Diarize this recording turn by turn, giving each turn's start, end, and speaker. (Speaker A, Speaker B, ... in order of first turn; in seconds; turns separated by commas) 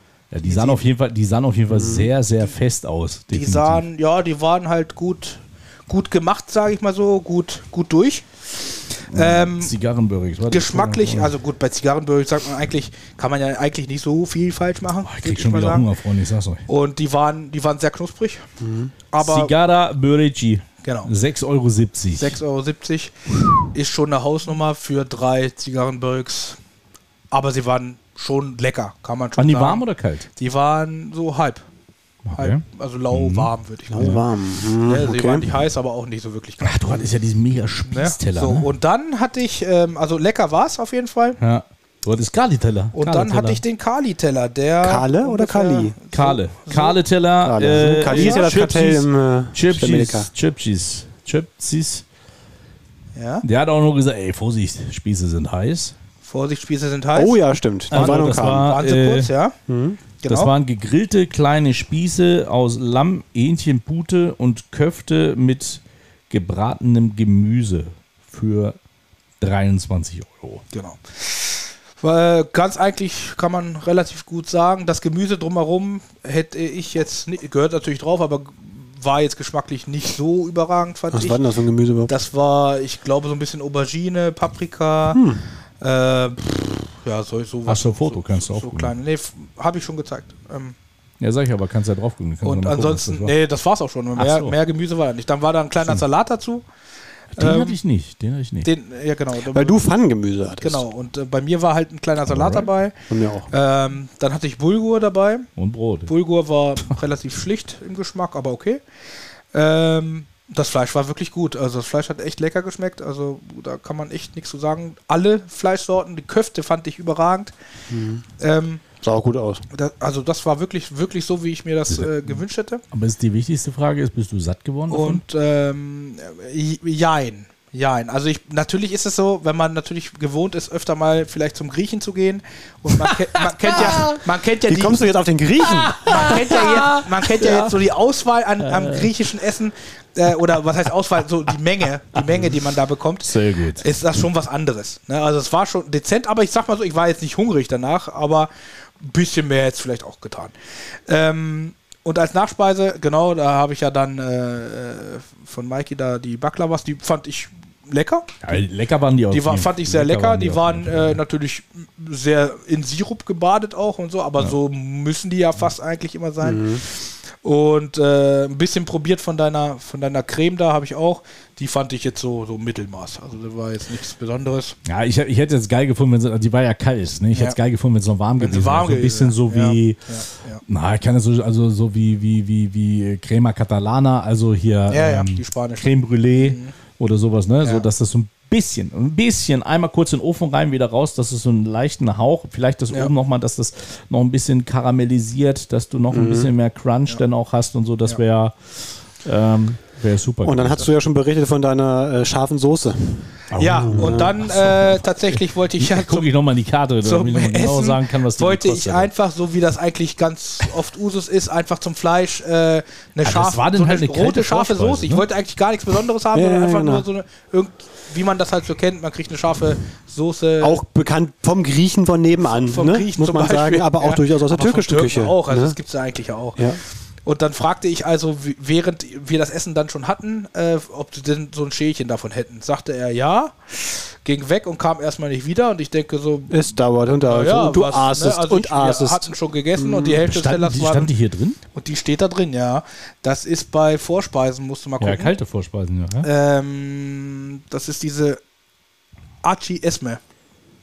Speaker A: 0.3-3.8, Speaker B: 0.5-0.8, Speaker C: 1.7-2.1, Speaker B: 3.3-9.7, Speaker A: 9.1-11.3, Speaker B: 10.5-15.9, Speaker A: 15.0-16.6, Speaker B: 16.7-18.4, Speaker C: 18.6-18.9, Speaker B: 19.1-19.5, Speaker A: 19.2-22.4, Speaker B: 20.8-21.1, Speaker B: 22.2-23.2, Speaker B: 23.7-26.6, Speaker B: 27.3-29.8, Speaker A: 29.4-30.3, Speaker B: 30.4-31.6, Speaker A: 32.3-34.2, Speaker B: 32.4-34.2, Speaker C: 33.9-35.6, Speaker B: 34.7-37.0, Speaker A: 36.6-38.7, Speaker B: 37.9-41.4, Speaker A: 41.4-43.6, Speaker B: 43.0-47.0, Speaker C: 44.8-46.0, Speaker A: 46.1-52.0, Speaker C: 47.4-50.3, Speaker B: 48.0-48.5, Speaker B: 53.1-53.5, Speaker A: 53.4-56.0, Speaker B: 56.2-59.6, Speaker C: 57.1-58.7, Speaker A: 57.9-59.3, Speaker C: 59.7-60.0, Speaker B: 60.2-60.5, Speaker A: 60.3-68.8, Speaker A: 69.4-70.6, Speaker B: 70.7-81.4, Speaker C: 81.1-82.2, Speaker B: 82.1-85.2, Speaker C: 85.1-85.5, Speaker B: 85.8-90.8, Speaker A: 87.7-88.9, Speaker A: 91.2-93.3, Speaker B: 92.4-96.7, Speaker A: 94.2-94.6, Speaker A: 97.3-98.7, Speaker B: 97.4-97.8, Speaker B: 98.6-99.8, Speaker C: 99.5-100.8, Speaker B: 100.6-103.0, Speaker A: 102.3-102.7, Speaker C: 103.1-103.5, Speaker B: 103.5-105.5, Speaker A: 105.6-106.1, Speaker B: 106.1-108.8, Speaker B: 109.5-117.5, Speaker C: 117.9-118.2, Speaker B: 118.4-118.8, Speaker C: 119.0-119.6, Speaker B: 119.7-122.8, Speaker A: 121.9-122.4, Speaker A: 122.9-125.2, Speaker B: 124.9-135.0, Speaker C: 134.7-136.8, Speaker B: 135.6-148.5, Speaker A: 136.1-136.7, Speaker A: 137.4-137.7, Speaker A: 138.6-139.1, Speaker A: 143.2-143.8, Speaker B: 149.0-150.5, Speaker B: 151.1-158.4, Speaker A: 158.4-161.2, Speaker B: 159.3-174.8, Speaker C: 166.4-166.8, Speaker A: 174.9-180.0, Speaker B: 178.4-180.6, Speaker A: 180.7-200.9, Speaker B: 184.9-186.7, Speaker B: 187.6-187.9, Speaker C: 196.1-196.5, Speaker C: 200.4-204.3, Speaker A: 203.5-209.1, Speaker B: 203.6-206.3, Speaker B: 207.0-220.8, Speaker A: 213.2-215.3, Speaker C: 216.3-217.1, Speaker C: 220.6-225.8, Speaker B: 222.5-226.7, Speaker B: 227.2-236.7, Speaker C: 236.5-240.2, Speaker B: 237.2-241.1, Speaker A: 240.2-241.6, Speaker B: 241.7-245.3, Speaker A: 245.0-246.3, Speaker B: 246.2-248.4, Speaker B: 249.4-250.2